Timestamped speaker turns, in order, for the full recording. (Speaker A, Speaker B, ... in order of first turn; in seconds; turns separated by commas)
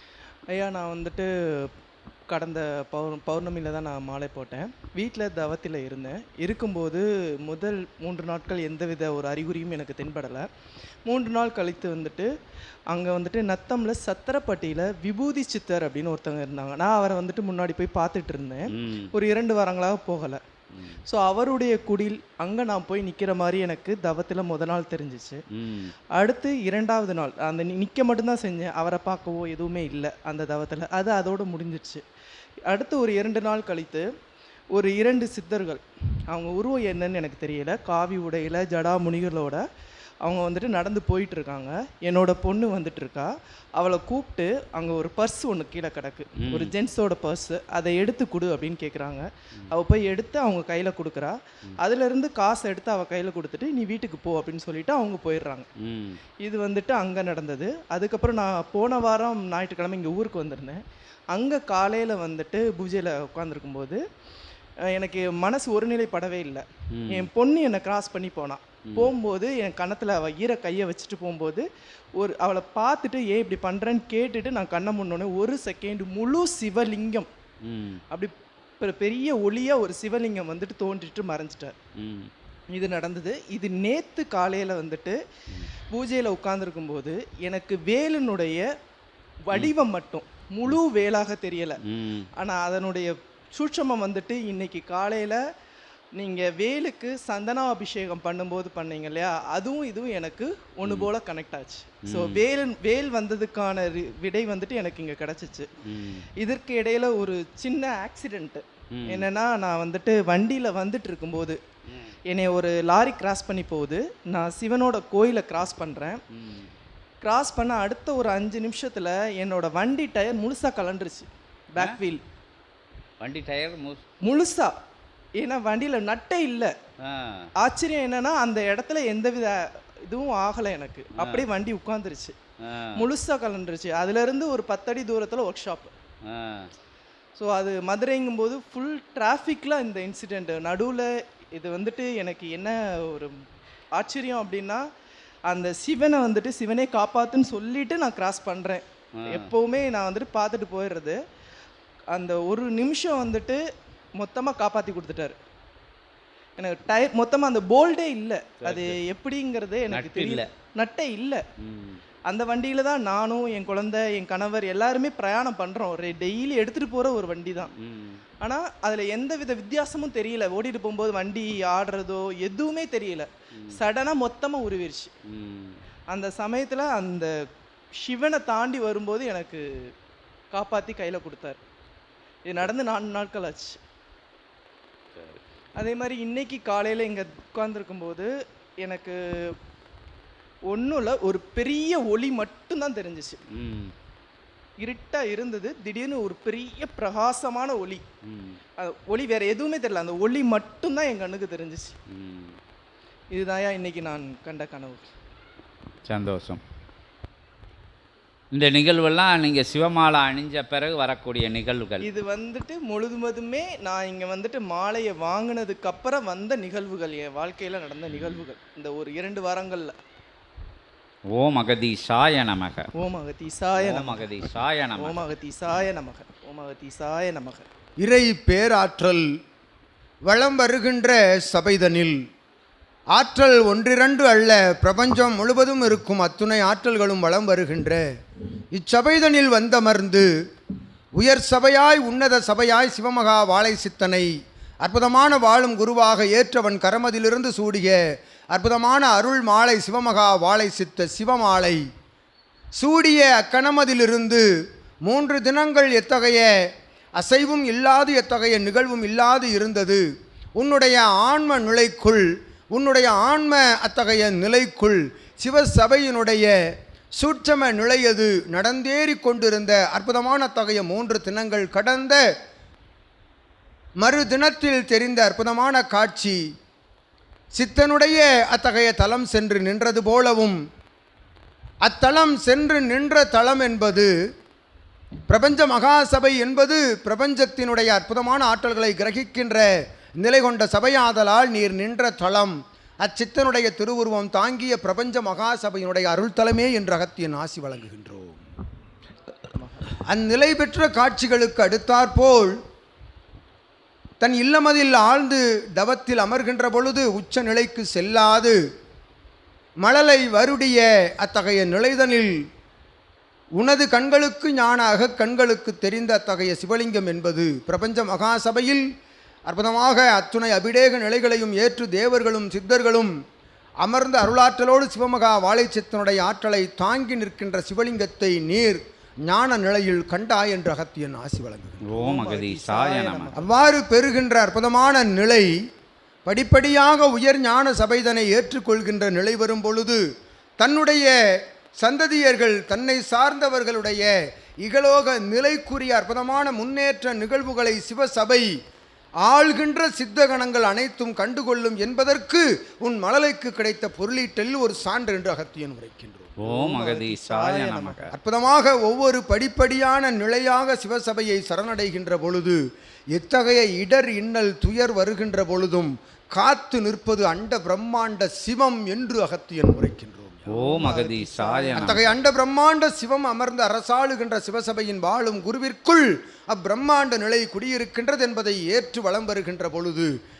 Speaker A: 0.5-1.7, Speaker A: 2.3-10.5, Speaker A: 11.1-12.3, Speaker A: 12.9-20.4, Speaker B: 18.7-19.1, Speaker B: 20.7-21.0, Speaker A: 21.1-25.4, Speaker B: 25.6-25.9, Speaker A: 26.2-32.0, Speaker A: 32.7-34.0, Speaker A: 34.7-39.6, Speaker A: 40.2-55.7, Speaker B: 46.4-46.7, Speaker B: 55.8-56.2, Speaker A: 56.4-60.8, Speaker A: 61.3-64.0, Speaker A: 65.0-71.6, Speaker B: 67.0-67.3, Speaker A: 72.2-77.3, Speaker B: 77.6-78.0, Speaker A: 78.1-81.8, Speaker B: 82.0-82.3, Speaker A: 82.7-85.2, Speaker A: 85.9-88.6, Speaker A: 89.5-91.8, Speaker B: 91.9-92.3, Speaker A: 92.4-95.4, Speaker A: 96.2-105.7, Speaker B: 102.0-102.4, Speaker B: 105.9-106.2, Speaker A: 106.4-111.6, Speaker B: 108.9-109.2, Speaker A: 112.3-116.2, Speaker B: 116.3-116.7, Speaker A: 117.2-122.2, Speaker B: 123.2-124.0, Speaker A: 124.2-124.7, Speaker A: 125.4-126.7, Speaker B: 127.0-127.5, Speaker A: 127.6-132.3, Speaker B: 131.2-131.4, Speaker B: 132.6-133.0, Speaker A: 133.0-135.9, Speaker B: 136.3-136.7, Speaker A: 137.3-143.3, Speaker A: 144.0-144.8, Speaker A: 145.5-151.2, Speaker B: 149.2-149.5, Speaker A: 152.1-153.6, Speaker A: 154.2-155.4, Speaker A: 156.6-161.4, Speaker B: 158.6-159.0, Speaker B: 159.9-160.5, Speaker B: 161.6-162.0, Speaker A: 162.3-167.7, Speaker B: 167.8-168.2, Speaker A: 168.4-175.1, Speaker B: 175.3-175.8, Speaker A: 176.1-177.3, Speaker A: 178.0-179.6, Speaker A: 180.5-181.6, Speaker A: 182.5-183.8, Speaker B: 185.2-185.4, Speaker A: 185.8-188.3, Speaker A: 188.8-189.5, Speaker A: 190.7-193.4, Speaker B: 193.5-193.9, Speaker A: 194.8-198.0, Speaker B: 198.3-198.6, Speaker A: 198.8-202.0, Speaker B: 202.1-202.5, Speaker A: 203.3-205.1, Speaker B: 206.1-206.6, Speaker B: 208.5-212.1, Speaker A: 212.0-219.9, Speaker B: 221.3-222.8, Speaker A: 223.0-224.3, Speaker B: 223.8-225.2, Speaker A: 225.0-227.7, Speaker C: 228.0-229.3, Speaker C: 230.2-232.2, Speaker C: 233.1-238.0, Speaker C: 238.7-240.3, Speaker C: 241.2-244.3, Speaker C: 244.8-248.0, Speaker C: 248.5-251.8, Speaker C: 252.8-254.4, Speaker C: 255.1-256.5, Speaker C: 257.2-260.0, Speaker C: 260.6-266.5, Speaker C: 267.2-272.2, Speaker C: 274.0-276.4, Speaker C: 277.6-280.6, Speaker C: 281.8-284.1, Speaker C: 285.3-289.7, Speaker C: 290.2-298.4, Speaker A: 299.5-299.9, Speaker C: 300.1-302.5, Speaker C: 304.2-308.6, Speaker C: 309.8-312.3, Speaker C: 313.6-318.8, Speaker C: 319.5-323.1, Speaker C: 323.8-331.9, Speaker B: 331.9-333.3, Speaker A: 331.9-333.5, Speaker C: 333.4-335.5, Speaker C: 336.2-340.0, Speaker C: 340.6-341.1, Speaker C: 341.8-344.1, Speaker C: 344.6-348.5, Speaker C: 349.2-356.3, Speaker B: 356.4-358.1, Speaker A: 356.4-358.1, Speaker C: 358.1-362.6, Speaker C: 363.1-370.6, Speaker B: 370.5-372.1, Speaker A: 370.5-372.0, Speaker C: 371.7-380.1